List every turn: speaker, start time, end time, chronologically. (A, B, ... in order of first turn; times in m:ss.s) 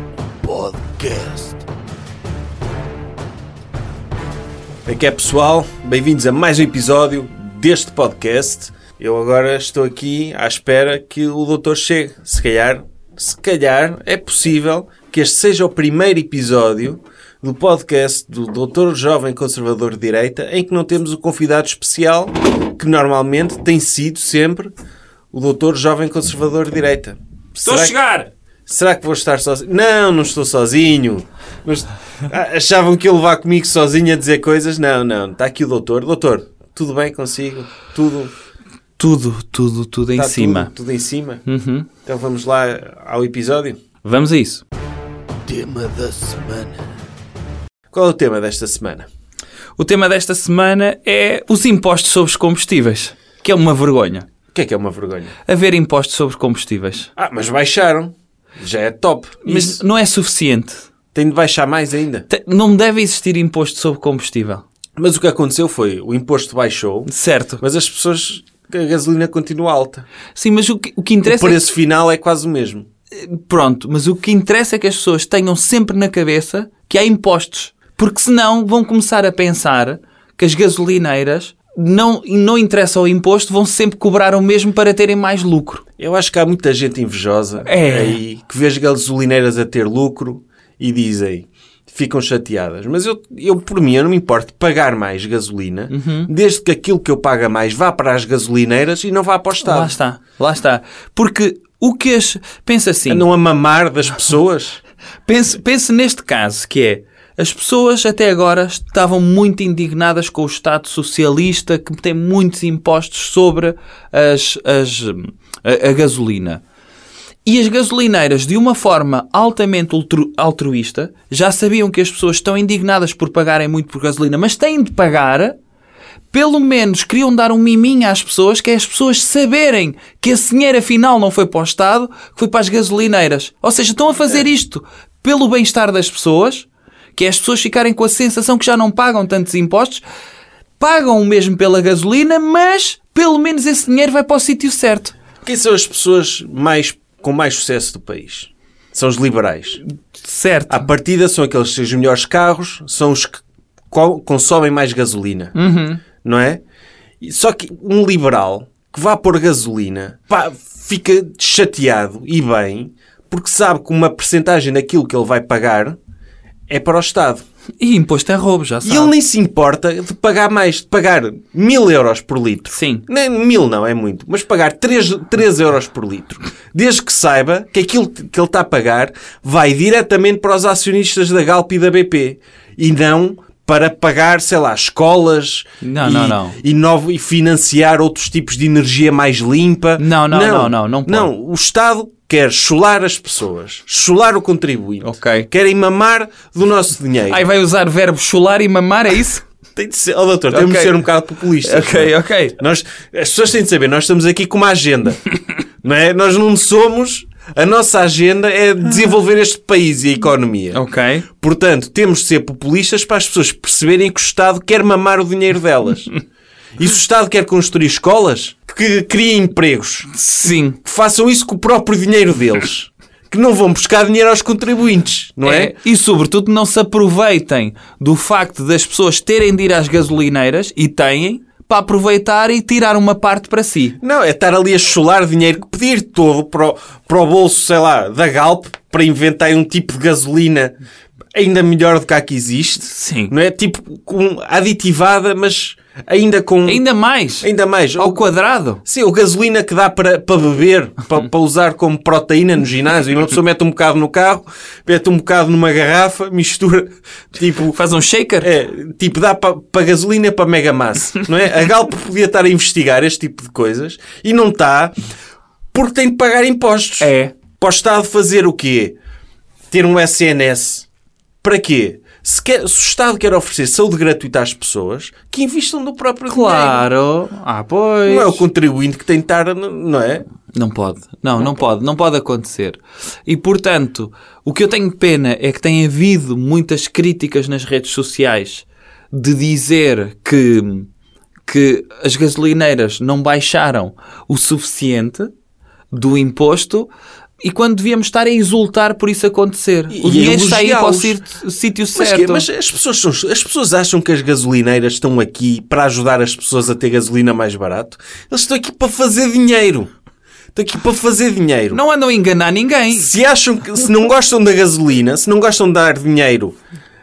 0:00.4-0:01.6 A
0:04.8-0:24.7 B
0:25.3-0:27.9 B
0:27.6-0:28.3 C
0:28.7-0:38.3 B
0:39.0-0:40.7 C
0:40.2-0:41.4 B
0:41.4-0:41.9 C
0:42.0-0:43.8 B
0:44.0-0:44.6 C
0:45.4-0:46.8 A
0:47.9-0:49.1 B
0:49.8-0:54.3 C
0:54.5-0:55.3 B
0:55.4-0:57.1 C
0:57.2-0:59.8 B
0:59.4-1:00.8 C
1:01.1-1:02.3 B
1:02.3-1:04.6 C
1:05.0-1:10.0 B
1:07.1-1:07.6 C
1:10.4-1:11.6 C
1:11.2-1:12.9 B
1:13.1-1:25.8 C
1:26.0-1:39.9 B
1:27.6-1:28.2 C
1:35.9-1:36.3 C
1:39.6-1:43.2 C
1:43.1-1:44.8 B
1:45.2-1:56.6 C
1:57.4-2:05.6 C
2:06.3-2:20.0 C
2:20.8-2:25.1 C
2:25.4-2:29.8 B
2:30.2-2:30.9 C
2:30.7-2:35.5 B
2:35.5-2:36.0 C
2:36.2-2:36.6 B
2:37.2-2:46.0 B
2:46.7-2:47.4 B
2:47.8-2:49.1 C
2:48.8-3:17.4 B
2:52.7-2:53.0 C
3:05.8-3:06.6 C
3:10.0-3:11.3 C
3:15.0-3:15.5 C
3:17.3-3:19.4 C
3:19.7-3:36.1 B
3:20.5-3:21.0 C
3:21.6-3:22.6 C
3:30.7-3:31.3 C
3:36.8-3:40.1 B
3:40.1-3:40.8 C
3:40.8-3:45.8 B
3:45.4-3:54.0 C
3:54.0-4:00.8 B
4:01.3-4:06.8 B
4:02.8-4:03.3 C
4:06.6-4:08.8 C
4:07.4-4:08.2 B
4:08.8-4:17.8 B
4:17.7-4:18.5 C
4:18.4-4:25.0 B
4:25.7-4:29.0 B
4:27.0-4:27.3 C
4:29.7-4:30.8 B
4:31.4-4:36.8 B
4:36.3-4:38.4 C
4:38.0-4:40.2 B
4:40.5-4:50.9 C
4:51.4-4:55.3 C
4:55.9-4:56.9 C
4:57.4-5:02.4 C
4:59.9-5:01.2 B
5:01.9-5:09.9 B
5:10.5-5:11.8 B
5:11.7-5:13.1 C
5:12.9-5:16.6 B